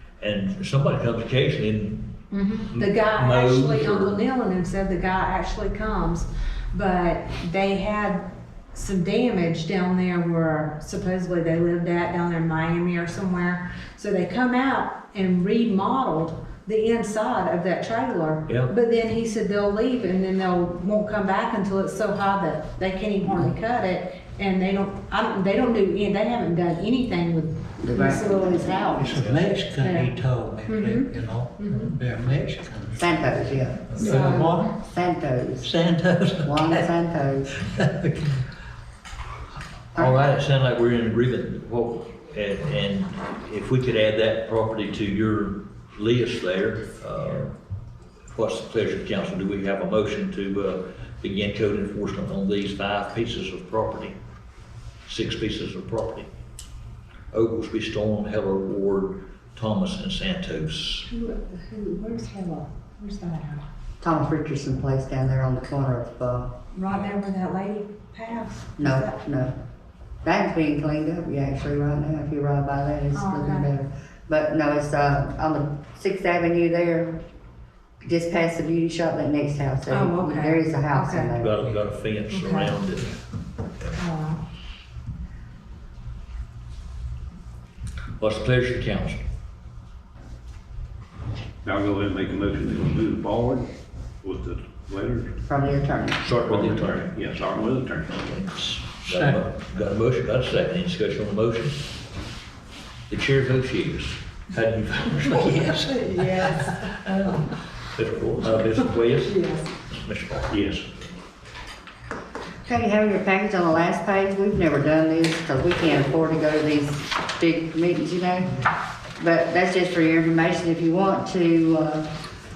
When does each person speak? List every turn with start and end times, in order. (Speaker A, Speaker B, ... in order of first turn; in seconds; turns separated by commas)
Speaker A: 0.2-2.1, Speaker B: 2.3-29.1, Speaker A: 2.7-4.2, Speaker C: 23.2-23.5, Speaker C: 27.8-29.4, Speaker D: 29.0-33.1, Speaker B: 29.7-30.1, Speaker B: 30.7-31.1, Speaker B: 31.6-31.9, Speaker C: 33.0-35.7, Speaker D: 33.9-34.7, Speaker B: 34.0-34.7, Speaker D: 35.6-36.9, Speaker C: 36.4-37.6, Speaker D: 37.6-38.5, Speaker A: 40.0-47.5, Speaker A: 48.3-54.1, Speaker A: 55.1-56.3, Speaker A: 57.3-61.1, Speaker B: 61.1-63.6, Speaker C: 64.0-66.5, Speaker B: 66.7-69.2, Speaker C: 68.8-69.5, Speaker C: 70.2-77.2, Speaker B: 73.1-73.7, Speaker C: 78.0-81.5, Speaker B: 79.9-81.3, Speaker A: 81.4-83.2, Speaker B: 82.3-82.8, Speaker B: 84.0-84.4, Speaker A: 88.2-89.2, Speaker E: 91.7-93.7, Speaker E: 94.2-95.4, Speaker C: 95.5-96.3, Speaker A: 96.2-97.1, Speaker E: 96.4-98.3, Speaker A: 98.2-101.8, Speaker D: 99.1-99.4, Speaker A: 103.1-110.5, Speaker B: 105.6-106.8, Speaker B: 109.2-109.7, Speaker E: 110.5-110.8, Speaker C: 112.7-118.6, Speaker C: 119.2-122.1